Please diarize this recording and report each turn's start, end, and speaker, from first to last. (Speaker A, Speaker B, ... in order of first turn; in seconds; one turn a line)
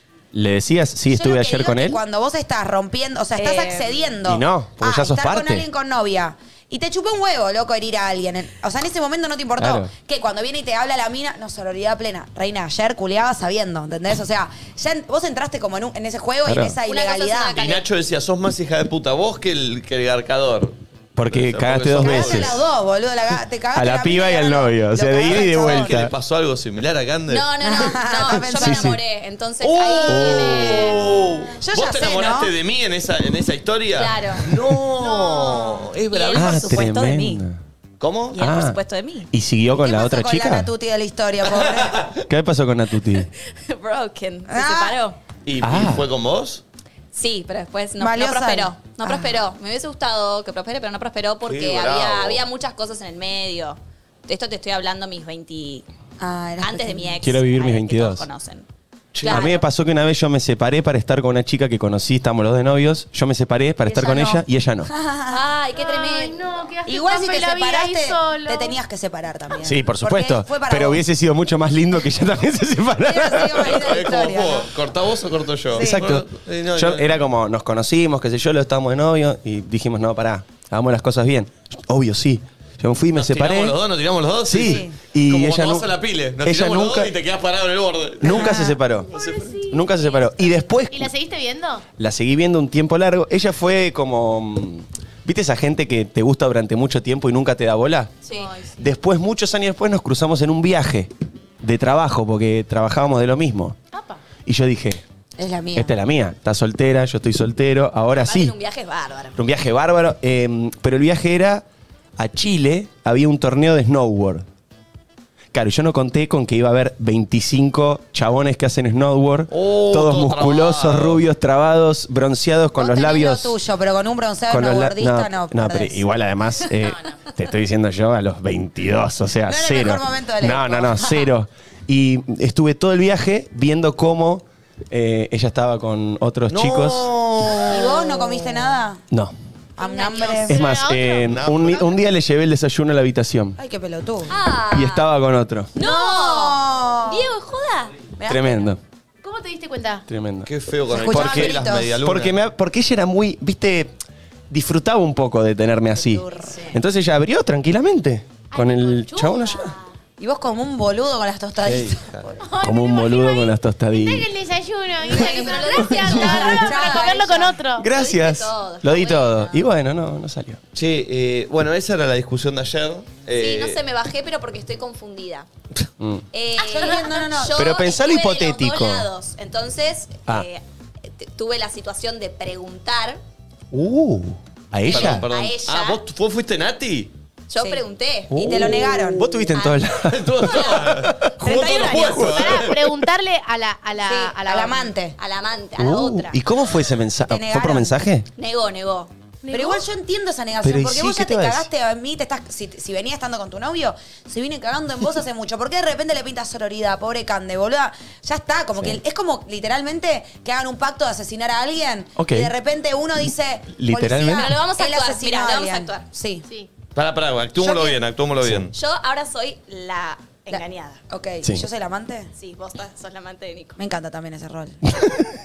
Speaker A: 0.3-2.0
Speaker B: 1.1-17.8
Speaker C: 3.4-3.9
Speaker A: 4.2-5.7
Speaker A: 9.6-9.9
Speaker A: 16.4-16.8
Speaker C: 16.8-17.8
Speaker D: 17.6-20.7
Speaker A: 21.1-22.6
Speaker D: 21.3-22.6
Speaker B: 22.0-26.0
Speaker A: 23.7-26.1
Speaker D: 25.2-27.5
Speaker C: 27.3-31.0
Speaker B: 27.6-29.0
Speaker A: 28.5-29.0
Speaker D: 29.6-36.8
Speaker A: 30.1-30.8
Speaker B: 31.6-32.5
Speaker C: 33.9-34.5
Speaker C: 36.1-37.4
Speaker A: 36.3-37.6
Speaker D: 38.0-38.4
Speaker C: 38.3-39.3
Speaker A: 38.4-38.8
Speaker A: 39.3-40.7
Speaker B: 39.7-42.1
Speaker D: 41.7-42.1
Speaker A: 42.3-43.3
Speaker C: 43.5-45.2
Speaker B: 44.5-45.0
Speaker D: 45.5-46.6
Speaker A: 45.6-46.1
Speaker C: 47.1-55.8
Speaker B: 48.0-49.4
Speaker D: 51.5-52.4
Speaker B: 56.2-57.1
Speaker C: 56.6-58.6
Speaker A: 57.2-58.2
Speaker D: 59.1-59.5
Speaker C: 59.2-59.6
Speaker A: 59.2-64.9
Speaker B: 63.9-65.4
Speaker C: 65.3-66.4
Speaker E: 65.8-68.8
Speaker B: 66.8-71.0
Speaker A: 69.6-73.8
Speaker B: 73.0-74.7
Speaker D: 73.6-77.2
Speaker A: 75.7-83.8
Speaker B: 75.7-76.0
Speaker D: 83.1-88.5
Speaker A: 84.5-87.1
Speaker B: 84.5-84.9
Speaker A: 88.2-89.1
Speaker B: 88.2-88.8
Speaker E: 89.1-91.8
Speaker D: 89.1-89.6
Speaker A: 89.7-91.1
Speaker A: 92.0-98.1
Speaker C: 98.2-98.6
Speaker E: 98.3-98.8
Speaker A: 98.8-103.8
Speaker E: 103.9-104.2
Speaker A: 104.4-105.0
Speaker B: 105.4-106.0
Speaker A: 105.7-108.5
Speaker C: 108.1-109.4
Speaker A: 109.3-111.6
Speaker A: 112.2-114.4
Speaker A: 115.5-123.6
Speaker D: 119.5-121.2
Speaker B: 122.8-126.0
Speaker A: 124.5-137.1
Speaker E: 126.8-127.2
Speaker B: 129.5-131.3
Speaker D: 136.5-138.3
Speaker B: 137.7-139.0
Speaker B: 139.8-140.6
Speaker C: 139.8-140.5
Speaker E: 140.4-141.9
Speaker A: 140.5-143.6
Speaker D: 141.2-141.9
Speaker B: 143.6-144.3
Speaker C: 144.3-145.1
Speaker A: 144.7-145.7
Speaker C: 145.7-147.9
Speaker B: 145.8-147.3
Speaker B: 148.2-148.7
Speaker A: 148.2-148.8
Speaker E: 149.2-150.0
Speaker A: 150.1-154.0
Speaker D: 150.4-152.4
Speaker B: 150.9-152.0
Speaker A: 154.5-159.7
Speaker B: 156.0-156.6
Speaker C: 156.5-156.7
Speaker E: 158.5-159.7
Speaker B: 160.2-162.4
Speaker A: 161.6-162.0
Speaker D: 162.0-162.3
Speaker E: 162.4-167.9
Speaker A: 162.6-164.3
Speaker C: 165.1-169.6
Speaker A: 165.8-166.6
Speaker B: 166.5-167.2
Speaker A: 167.8-170.6
Speaker D: 170.7-173.8
Speaker C: 173.3-175.5
Speaker A: 176.0-176.2
Speaker C: 176.3-183.2
Speaker B: 176.6-177.7
Speaker A: 177.5-179.1
Speaker A: 183.7-185.2
Speaker C: 184.9-186.0
Speaker D: 184.9-187.1
Speaker C: 187.5-188.7
Speaker A: 188.3-192.5
Speaker B: 188.3-189.4
Speaker C: 189.5-189.8
Speaker D: 190.0-192.9
Speaker C: 190.5-190.8
Speaker C: 191.4-192.4
Speaker E: 192.2-194.9
Speaker B: 194.1-195.2
Speaker C: 195.2-196.4
Speaker A: 195.8-198.3
Speaker B: 197.3-197.9
Speaker C: 198.3-199.1
Speaker E: 199.4-199.8
Speaker B: 199.5-216.4
Speaker A: 200.6-201.7
Speaker A: 212.2-212.5
Speaker A: 213.8-214.5
Speaker C: 214.3-216.0
Speaker D: 216.9-218.7
Speaker B: 217.6-218.0
Speaker A: 218.4-218.7
Speaker C: 218.7-221.0
Speaker B: 220.5-222.3
Speaker C: 222.3-223.8
Speaker B: 223.8-224.8